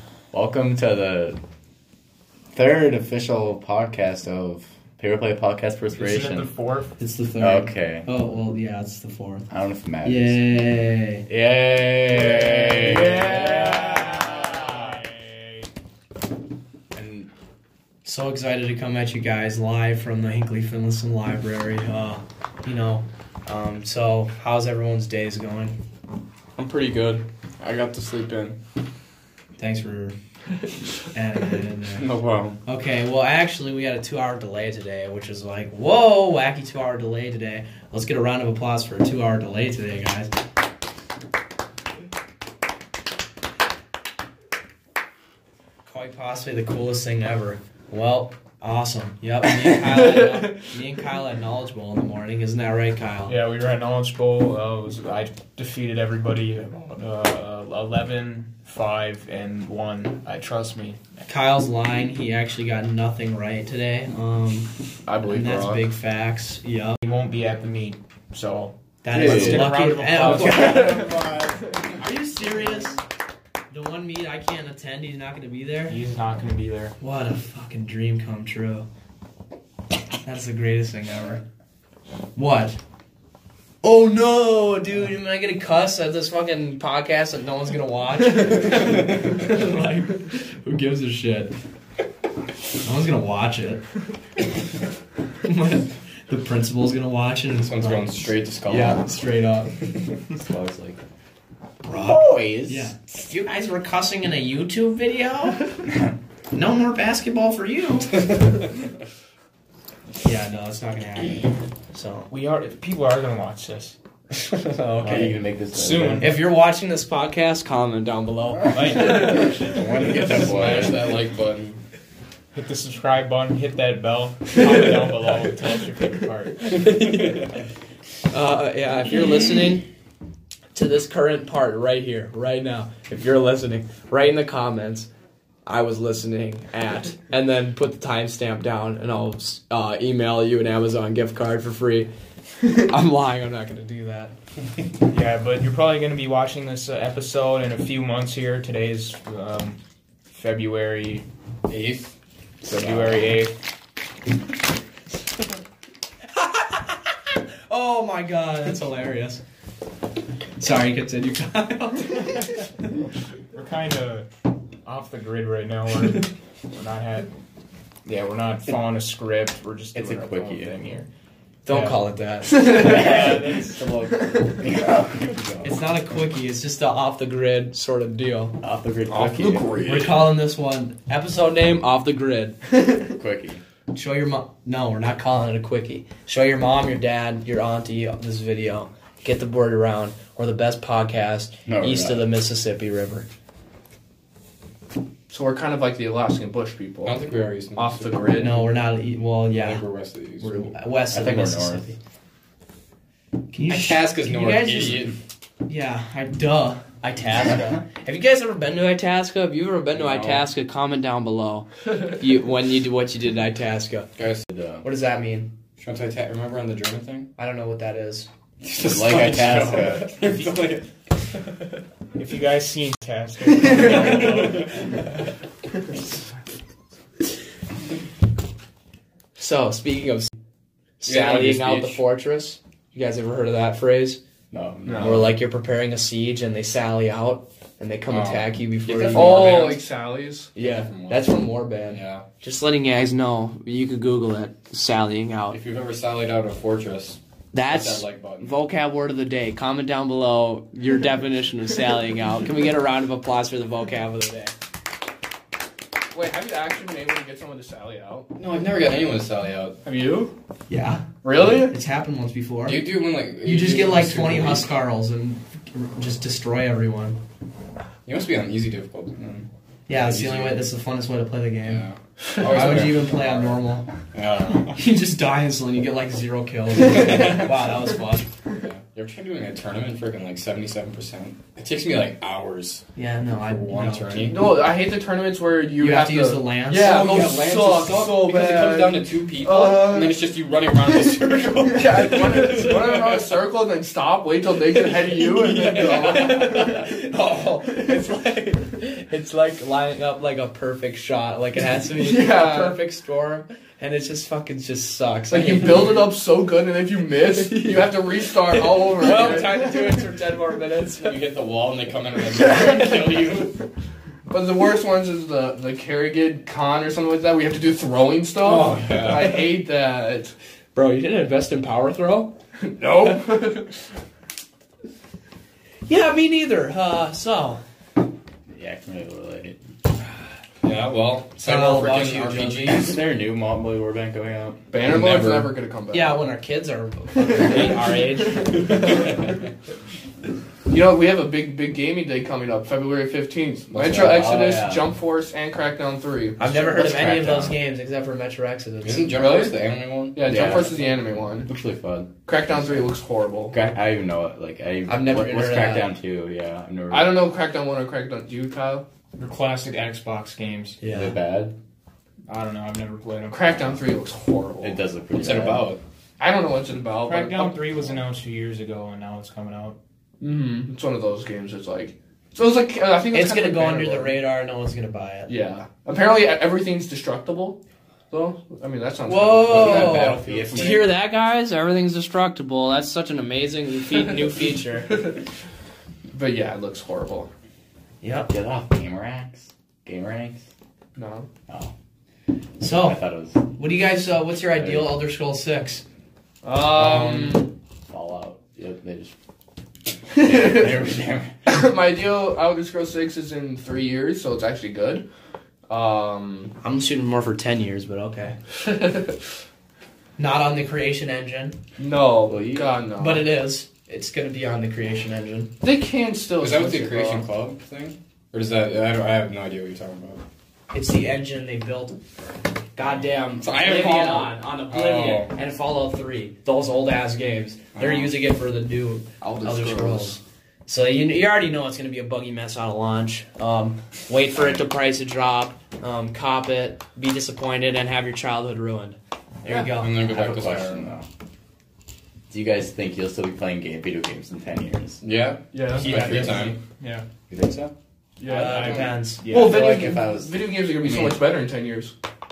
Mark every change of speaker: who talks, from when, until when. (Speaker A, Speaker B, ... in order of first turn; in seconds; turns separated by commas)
Speaker A: 0.3-1.4, Speaker A: 2.5-6.5, Speaker B: 5.9-7.0, Speaker C: 7.0-9.5, Speaker A: 7.4-8.1, Speaker A: 9.5-10.4, Speaker C: 10.0-11.2, Speaker A: 11.3-14.8, Speaker B: 12.4-15.7, Speaker A: 16.9-17.3, Speaker C: 18.0-25.8, Speaker D: 26.6-28.6, Speaker C: 29.6-30.1, Speaker C: 31.0-32.1, Speaker D: 31.9-32.6, Speaker C: 32.6-40.3, Speaker C: 45.9-53.4, Speaker E: 49.9-50.5, Speaker B: 53.3-61.0, Speaker C: 61.2-64.7, Speaker E: 65.0-65.8, Speaker C: 65.3-67.0, Speaker B: 67.0-71.4, Speaker C: 69.0-71.2, Speaker A: 69.1-69.7, Speaker A: 70.4-71.6, Speaker C: 71.9-73.0, Speaker C: 73.7-76.0, Speaker B: 75.9-76.9, Speaker C: 77.0-78.8, Speaker C: 80.2-81.4, Speaker C: 82.3-82.8, Speaker C: 83.8-91.5, Speaker C: 92.8-93.8, Speaker C: 95.4-99.7, Speaker D: 97.6-99.0, Speaker A: 100.3-101.0, Speaker C: 101.8-105.8, Speaker A: 101.9-102.9, Speaker C: 106.5-108.2, Speaker D: 108.3-108.6, Speaker C: 110.2-112.3, Speaker B: 112.3-114.0, Speaker C: 114.3-115.3, Speaker A: 115.0-116.4, Speaker B: 115.0-116.3, Speaker C: 116.2-119.5, Speaker B: 118.7-119.7, Speaker A: 119.0-121.0, Speaker D: 120.3-121.8, Speaker B: 122.5-126.9, Speaker C: 126.9-127.6, Speaker C: 128.3-129.8, Speaker C: 130.7-135.1, Speaker C: 135.6-142.1, Speaker C: 142.7-144.3, Speaker B: 145.1-151.3, Speaker D: 151.7-152.1, Speaker B: 152.6-153.5, Speaker A: 152.7-153.3, Speaker C: 156.3-159.4, Speaker C: 160.6-162.7, Speaker B: 163.5-164.3, Speaker B: 164.8-167.3, Speaker B: 168.1-171.1, Speaker A: 169.9-170.9, Speaker C: 171.7-172.6, Speaker B: 171.7-172.0, Speaker E: 172.4-173.3, Speaker A: 172.6-175.8, Speaker B: 172.8-173.9, Speaker E: 174.2-174.6, Speaker C: 175.6-178.6, Speaker A: 178.6-179.7, Speaker E: 179.1-180.4, Speaker C: 179.8-182.6, Speaker A: 183.1-183.6, Speaker C: 183.9-193.3, Speaker A: 191.7-192.3, Speaker E: 195.3-198.6, Speaker D: 197.0-198.2, Speaker C: 198.3-199.8, Speaker D: 199.5-200.7, Speaker C: 200.4-202.0, Speaker A: 201.1-201.9, Speaker C: 203.5-205.1, Speaker D: 203.6-205.2, Speaker C: 205.6-214.1, Speaker D: 209.9-210.4, Speaker D: 214.2-214.4, Speaker A: 214.5-214.8, Speaker C: 214.8-215.5, Speaker D: 215.8-217.3, Speaker C: 217.4-218.3, Speaker D: 218.6-220.8, Speaker A: 218.8-220.2, Speaker B: 222.1-225.2, Speaker C: 229.3-230.3, Speaker C: 231.0-234.2, Speaker D: 231.0-232.0, Speaker A: 234.5-235.4, Speaker E: 234.8-235.2, Speaker C: 235.0-239.8, Speaker D: 238.1-239.8, Speaker E: 239.1-240.5, Speaker C: 240.5-245.6, Speaker D: 240.6-242.2, Speaker D: 245.5-248.6, Speaker C: 247.5-254.5, Speaker E: 256.1-258.3, Speaker D: 258.4-259.8, Speaker E: 259.8-260.3, Speaker C: 260.7-262.8, Speaker E: 261.2-261.7, Speaker D: 262.6-264.7, Speaker C: 263.4-267.2, Speaker D: 268.0-270.7, Speaker C: 269.9-271.9, Speaker D: 271.6-274.8, Speaker C: 272.4-273.9, Speaker C: 274.7-278.3, Speaker D: 276.8-277.5, Speaker D: 278.5-282.8, Speaker C: 282.9-284.4, Speaker D: 283.4-284.5, Speaker E: 284.3-290.2, Speaker C: 285.8-286.9, Speaker D: 286.7-293.2, Speaker E: 291.4-296.9, Speaker C: 295.5-306.0, Speaker D: 295.5-296.4, Speaker E: 301.9-302.8, Speaker E: 305.3-310.0, Speaker C: 307.4-307.9, Speaker C: 308.4-311.2, Speaker D: 310.9-313.6, Speaker E: 314.3-320.3, Speaker D: 318.4-319.4, Speaker C: 320.7-322.3, Speaker E: 322.6-323.7, Speaker C: 325.9-327.6, Speaker A: 328.5-329.6, Speaker D: 330.6-332.9, Speaker C: 331.4-333.0, Speaker A: 332.6-334.6, Speaker E: 334.7-336.3, Speaker D: 334.8-335.5, Speaker C: 335.9-339.1, Speaker E: 337.2-337.8, Speaker E: 338.7-339.1, Speaker E: 340.7-346.4, Speaker A: 343.7-344.9, Speaker C: 346.4-349.5, Speaker A: 346.4-347.6, Speaker D: 348.8-350.7, Speaker E: 350.1-351.5, Speaker A: 350.2-352.8, Speaker E: 352.2-353.6, Speaker A: 353.5-357.3, Speaker C: 354.9-355.9, Speaker E: 356.9-358.9, Speaker B: 359.2-360.8, Speaker C: 360.8-361.2, Speaker A: 360.8-361.5, Speaker B: 362.3-363.8, Speaker E: 363.3-364.8, Speaker A: 364.6-365.7, Speaker D: 365.2-365.8, Speaker E: 366.2-367.6, Speaker B: 367.0-369.8, Speaker E: 370.2-374.1, Speaker C: 373.1-375.3, Speaker E: 375.3-380.1, Speaker C: 379.1-385.1, Speaker D: 379.4-380.9, Speaker A: 380.1-380.8, Speaker E: 386.1-387.3, Speaker C: 388.0-388.3, Speaker A: 388.3-390.4, Speaker E: 390.9-391.3, Speaker C: 392.6-395.8, Speaker A: 392.8-393.4, Speaker A: 394.5-395.0, Speaker E: 396.4-397.5, Speaker C: 396.6-397.5, Speaker A: 397.9-399.1, Speaker A: 400.1-401.4, Speaker E: 400.2-400.7, Speaker E: 401.4-405.1, Speaker E: 405.7-406.5, Speaker C: 406.6-408.4, Speaker E: 408.6-409.2, Speaker C: 410.2-411.6, Speaker E: 411.8-413.3, Speaker A: 412.3-412.7, Speaker C: 412.9-415.5, Speaker E: 415.6-417.3, Speaker D: 416.4-420.2, Speaker C: 420.7-422.0, Speaker C: 422.8-440.1, Speaker D: 423.4-425.3, Speaker D: 427.7-428.1, Speaker E: 429.2-430.2, Speaker A: 434.4-434.6, Speaker D: 439.6-440.9, Speaker A: 439.9-441.1, Speaker A: 442.3-445.0, Speaker D: 445.0-446.6, Speaker E: 445.5-445.9, Speaker A: 445.8-446.5, Speaker B: 445.9-447.1, Speaker A: 447.3-447.7, Speaker E: 448.2-451.9, Speaker C: 448.2-449.8, Speaker B: 448.4-449.8, Speaker A: 449.3-451.2